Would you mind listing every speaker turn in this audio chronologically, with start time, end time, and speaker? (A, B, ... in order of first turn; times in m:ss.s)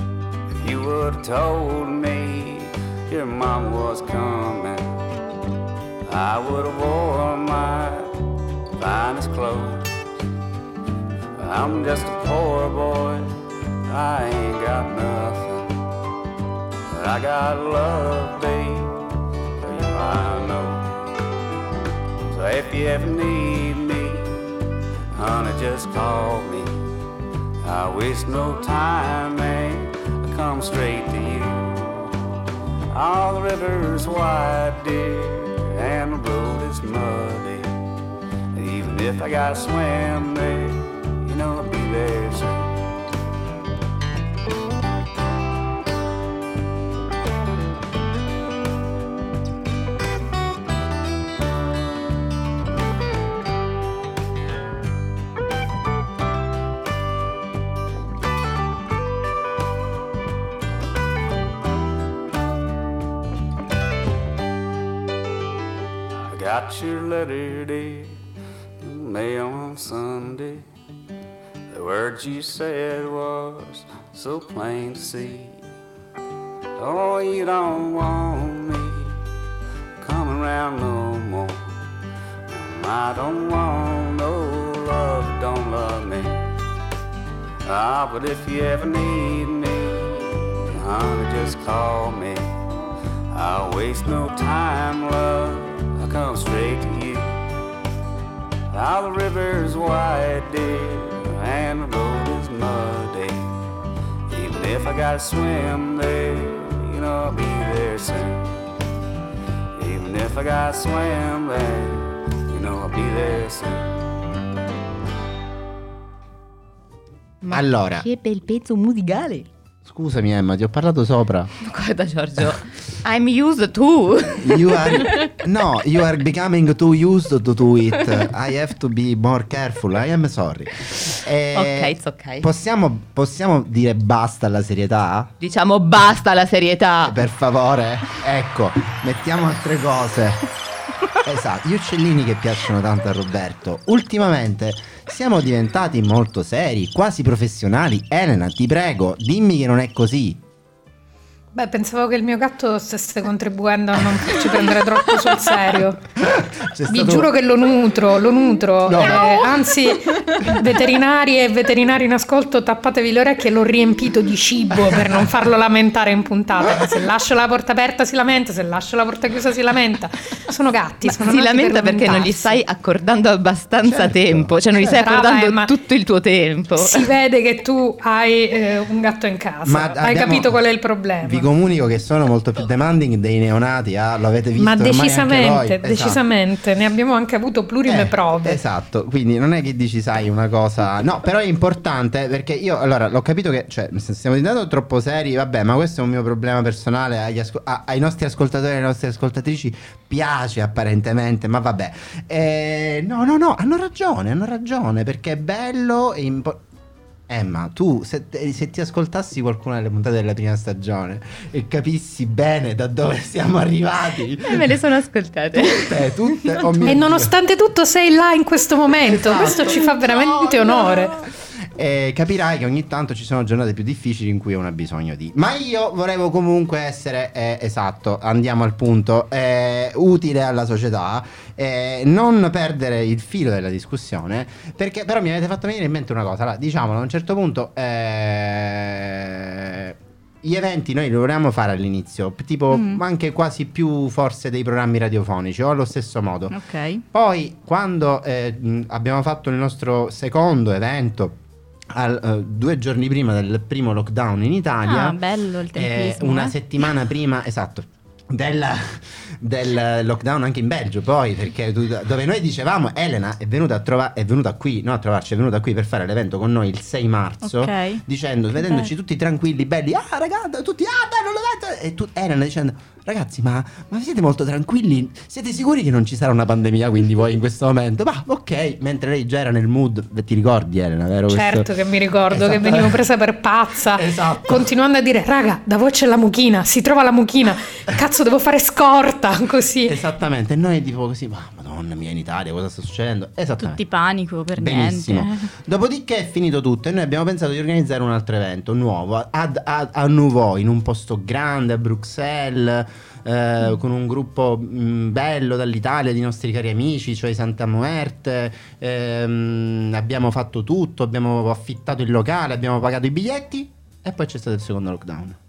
0:00.6-0:04.9 A
0:06.0-0:08.1 A
0:08.7-0:09.9 A
0:11.4-0:13.3 A
0:13.8-0:15.8 A
0:16.9-0:19.0 A
0:19.6-0:20.9 A
0:22.3-0:24.5 A
0:25.1-0:26.7 A
0:27.6-0:32.1 A
0:32.9-0:37.7 A
0:38.5-0:42.7 A
1:06.3-1:08.1 A
1:08.8-1:10.6 A
1:11.7-1:15.6 A
1:16.8-1:19.1 A
1:20.0-1:21.8 A
1:22.5-1:26.4 A
1:27.6-1:32.5 A
1:33.3-1:37.4 A
1:38.7-1:43.6 A
1:44.3-1:48.5 A
1:49.8-1:53.9 A
1:57.4-1:59.5 B
1:57.5-1:58.0 C
1:59.8-2:01.5 C
2:01.6-2:05.3 B
2:04.4-2:15.3 C
2:11.5-2:12.5 B
2:15.4-2:17.2 B
2:17.0-2:20.4 C
2:21.2-2:30.4 C
2:31.5-2:36.0 D
2:36.2-2:37.3 C
2:36.9-2:52.6 D
2:38.8-2:39.6 C
2:51.0-2:57.1 B
2:53.8-2:54.5 C
2:54.8-2:55.7 D
2:56.8-3:01.5 D
2:59.6-3:00.6 C
3:01.2-3:06.2 C
3:04.6-3:08.6 D
3:07.8-3:26.6 C
3:27.3-3:34.8 C
3:34.4-3:36.6 B
3:35.5-3:37.3 C
3:36.8-3:41.2 D
3:39.1-4:06.6 C
4:02.7-4:03.0 E
4:06.5-4:07.0 E
4:07.1-4:11.4 C
4:11.9-4:15.2 C
4:14.8-4:16.9 E
4:15.7-4:41.7 C
4:27.4-4:28.0 E
4:28.6-4:28.9 E
4:41.3-4:50.0 D
4:42.3-4:43.0 C
4:43.9-4:44.7 C
4:49.9-4:53.8 C
4:53.6-4:55.5 E
4:54.6-5:15.4 C